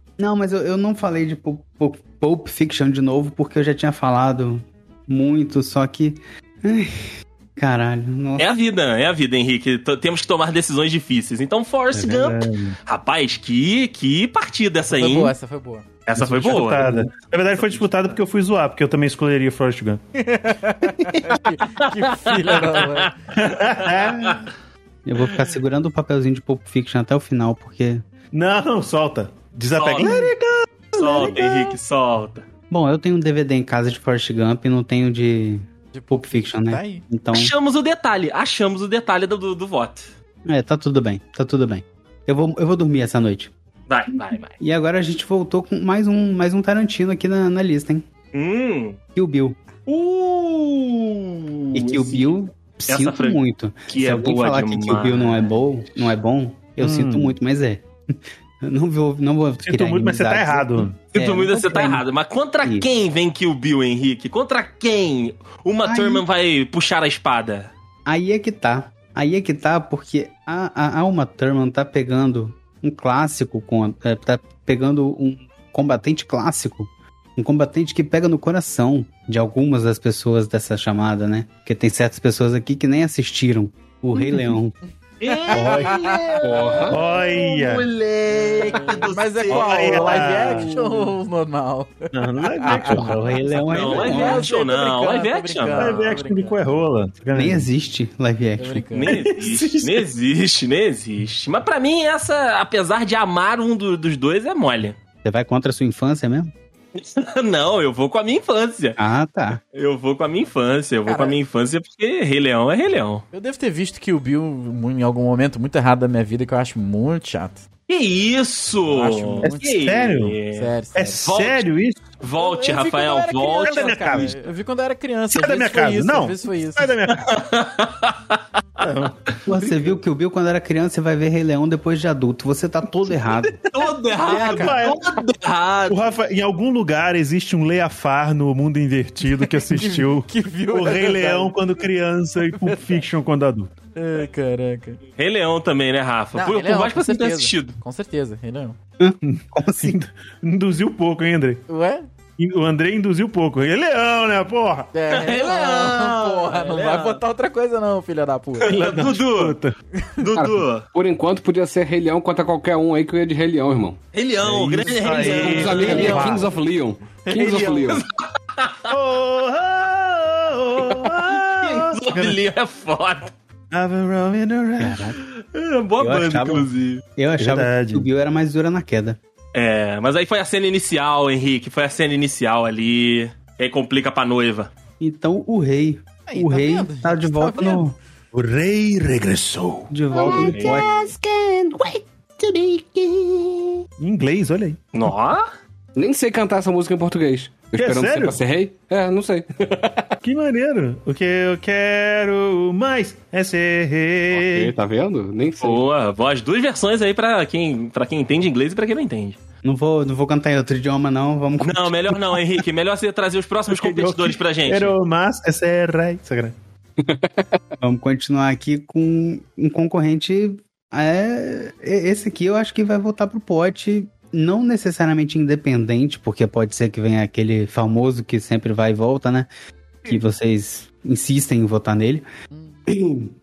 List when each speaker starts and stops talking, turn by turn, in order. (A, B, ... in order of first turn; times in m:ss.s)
0:00.2-0:08.5 A
0:08.4-0:15.3 B
0:11.9-0:12.8 C
0:14.9-0:15.9 D
0:16.1-0:17.9 B
0:16.2-0:20.0 C
0:20.2-0:23.1 D
0:21.8-0:23.1 B
0:23.4-0:24.4 C
0:23.7-0:24.4 B
0:25.0-0:28.1 A
0:28.3-0:31.7 C
0:29.8-0:30.3 B
0:31.0-0:32.4 B
0:32.7-0:37.5 A
0:35.9-0:37.0 D
0:37.3-0:40.1 B
0:40.4-0:43.5 A
0:43.9-0:44.6 B
0:44.2-0:48.1 A
0:48.3-0:49.0 B
0:49.2-0:49.6 A
0:49.9-0:52.3 B
0:51.7-0:57.9 A
0:52.9-0:55.5 B
0:56.8-0:57.3 C
0:58.6-1:02.0 A
0:59.6-1:01.0 C
1:01.1-1:07.7 B
1:05.8-1:06.2 A
1:08.1-1:24.8 A
1:25.2-1:31.1 B
1:25.3-1:26.4 D
1:25.5-1:26.0 C
1:26.4-1:27.0 E
1:26.9-1:27.9 C
1:28.3-1:36.8 D
1:29.5-1:30.7 C
1:32.1-1:33.4 C
1:32.9-1:34.5 A
1:33.7-1:36.1 B
1:35.8-1:37.7 C
1:37.3-1:39.0 A
1:38.6-1:39.1 D
1:39.0-1:45.0 B
1:39.1-1:40.0 C
1:45.2-1:46.5 A
1:47.0-1:49.0 B
1:49.0-1:49.6 A
1:49.7-1:53.2 B
1:51.1-1:51.4 D
1:53.3-1:57.6 D
1:57.9-2:00.7 B
1:58.9-1:59.7 D
1:59.4-2:00.4 C
2:00.5-2:01.2 D
2:01.0-2:02.1 C
2:01.2-2:01.7 B
2:02.2-2:04.4 B
2:02.4-2:07.0 D
2:03.6-2:04.3 C
2:05.3-2:07.4 C
2:07.1-2:08.4 B
2:08.8-2:09.2 C
2:09.5-2:13.6 A
2:13.7-2:16.2 B
2:14.2-2:14.9 D
2:14.3-2:15.1 C
2:15.9-2:23.7 C
2:19.3-2:21.6 D
2:22.5-2:23.0 D
2:24.0-2:25.0 D
2:25.2-2:27.8 B
2:26.3-2:28.8 D
2:29.0-2:30.0 A
2:29.3-2:31.6 C
2:31.7-2:32.1 D
2:32.4-2:34.9 C
2:34.9-2:38.8 D
2:35.1-2:37.2 B
2:38.6-2:39.6 B
2:38.6-2:39.8 C
2:40.2-2:40.9 B
2:40.3-2:44.0 E
2:44.1-2:46.2 B
2:44.4-2:46.5 C
2:45.2-2:48.0 E
2:45.7-2:46.5 D
2:47.2-2:48.0 D
2:47.7-2:48.9 B
2:48.9-2:52.4 C
2:51.6-2:53.3 B
2:53.7-2:55.0 C
2:54.8-2:55.2 A
2:55.4-2:57.0 B
2:56.0-2:59.2 A
2:57.4-2:58.1 C
2:59.5-3:04.7 B
3:05.0-3:08.0 A
3:06.3-3:07.9 D
3:08.3-3:10.8 C
3:09.9-3:10.9 A
3:10.1-3:13.7 E
3:10.4-3:10.8 B
3:14.0-3:14.8 C
3:14.9-3:15.5 B
3:16.0-3:20.2 E
3:17.8-3:18.4 C
3:20.2-3:24.8 C
3:24.3-3:25.8 E
3:25.6-3:29.4 B
3:29.6-3:32.4 A
3:31.6-3:35.0 B
3:33.7-3:36.6 C
3:37.0-3:37.6 E
3:37.8-3:49.5 A
3:50.0-3:52.3 A
3:52.5-3:52.8 D
3:52.9-3:53.2 A